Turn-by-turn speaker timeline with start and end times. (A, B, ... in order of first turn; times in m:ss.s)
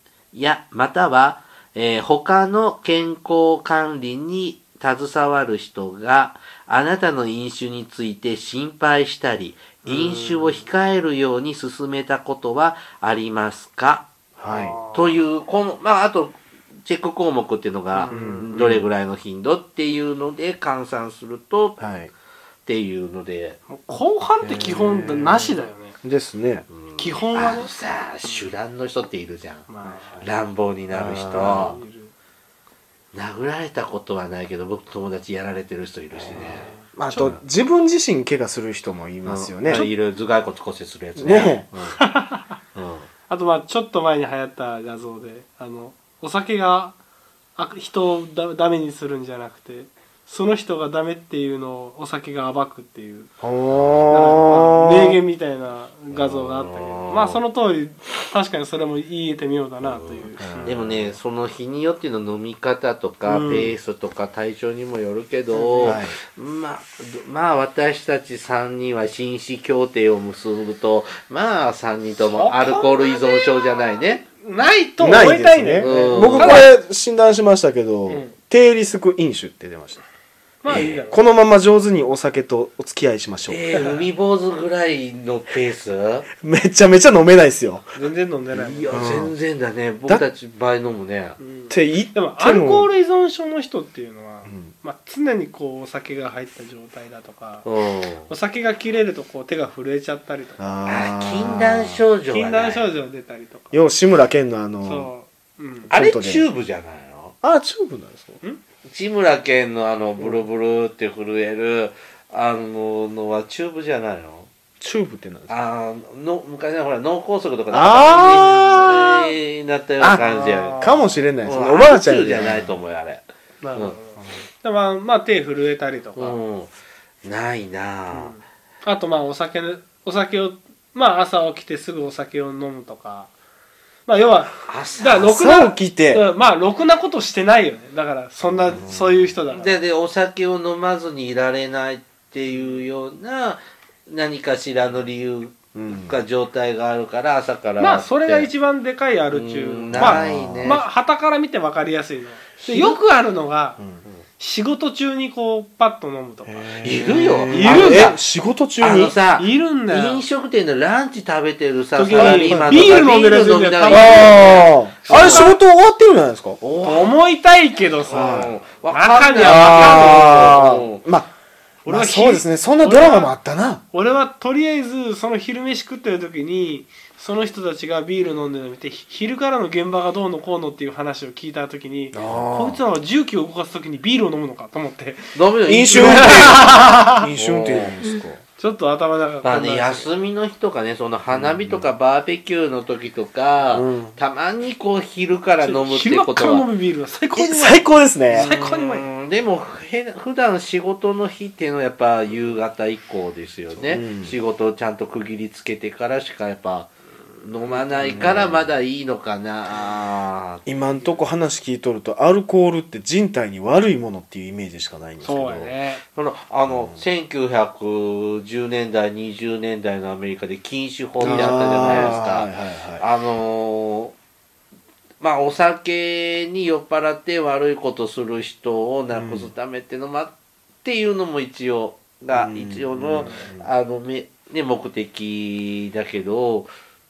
0:00.3-0:14.1 A
0:09.8-0:10.7 B
0:14.4-0:14.8 C
0:14.5-0:15.2 B
0:14.7-0:21.8 A
0:17.9-0:18.5 B
0:18.1-0:18.8 C
0:21.8-0:22.1 C
0:22.6-0:23.6 A
0:23.7-0:26.0 B
0:24.4-0:26.7 C
0:26.7-0:29.7 A
0:27.0-0:27.7 B
0:28.2-0:28.5 B
0:29.7-0:30.3 B
0:30.2-0:31.8 A
0:30.9-0:31.8 C
0:31.2-0:32.1 B
0:33.1-0:37.4 A
0:36.2-0:39.9 C
0:36.4-0:37.3 B
0:39.2-0:42.0 A
0:41.2-0:41.6 C
0:42.0-0:42.6 B
0:42.7-0:43.1 A
0:43.3-0:46.9 B
0:47.6-0:53.3 B
0:53.4-0:55.2 C
0:53.7-0:54.0 A
0:54.1-1:00.8 B
0:56.1-0:57.4 A
0:59.8-1:14.3 A
1:00.4-1:01.1 C
1:03.2-1:03.8 B
1:05.5-1:06.0 B
1:05.8-1:06.2 C
1:12.3-1:13.8 B
1:14.4-1:16.7 B
1:15.0-1:20.0 C
1:15.8-1:16.7 A
1:18.1-1:18.3 B
1:20.6-1:21.2 B
1:20.7-1:23.8 C
1:23.5-1:26.3 A
1:26.4-1:28.1 C
1:28.0-1:29.1 B
1:28.5-1:31.4 A
1:28.9-1:29.3 C
1:31.4-1:37.6 B
1:31.7-1:32.9 C
1:34.4-1:34.7 C
1:37.6-1:38.3 A
1:38.3-1:40.6 B
1:40.6-1:42.0 C
1:40.9-1:42.9 A
1:42.3-1:43.7 B
1:43.7-1:45.1 C
1:44.8-1:45.9 B
1:45.9-1:46.4 C
1:45.9-1:47.3 A
1:47.4-1:48.4 C
1:48.9-1:54.5 A
1:54.8-1:55.5 C
1:55.5-2:00.9 A
1:57.7-1:59.3 C
2:00.0-2:02.7 C
2:00.2-2:01.1 B
2:01.4-2:04.0 A
2:03.6-2:06.4 B
2:06.2-2:06.7 A
2:07.2-2:08.3 A
2:08.1-2:13.3 B
2:14.1-2:19.8 B
2:14.6-2:15.3 A
2:15.1-2:16.2 C
2:18.7-2:19.3 C
2:19.5-2:28.5 A
2:25.7-2:26.2 C
2:27.8-2:33.8 B
2:29.3-2:30.8 A
2:29.9-2:30.8 C
2:32.6-2:33.0 A
2:34.4-2:36.8 B
2:36.4-2:39.2 C
2:36.8-2:38.2 A
2:37.5-2:38.2 B
2:38.8-2:45.5 A
2:39.3-2:40.2 B
2:41.9-2:45.6 B
2:42.1-2:42.9 C
2:43.8-2:46.6 C
2:46.6-2:47.1 A
2:46.8-2:50.6 B
2:48.1-2:48.6 C
2:48.1-2:51.0 A
2:49.4-2:51.3 C
2:51.8-2:53.3 B
2:51.9-2:53.8 C
2:53.9-3:05.3 B
3:02.1-3:02.8 C
3:05.3-3:08.0 A
3:05.6-3:08.4 C
3:05.9-3:07.3 B
3:08.1-3:10.1 B
3:09.4-3:16.7 A
3:11.3-3:11.9 C
3:13.7-3:14.2 C
3:15.6-3:19.1 B
3:17.3-3:18.5 C
3:18.3-3:26.9 A
3:23.7-3:24.3 C
3:27.4-3:30.6 A
3:28.0-3:28.7 C
3:30.6-3:35.7 C
3:35.2-3:36.0 B
3:36.1-3:44.1 A
3:36.7-3:37.0 C
3:41.2-3:43.0 C
3:41.3-3:42.1 B
3:45.2-3:50.3 A
3:49.1-3:49.5 C
3:50.8-3:56.7 A
3:52.3-3:53.7 C
3:53.2-3:53.5 B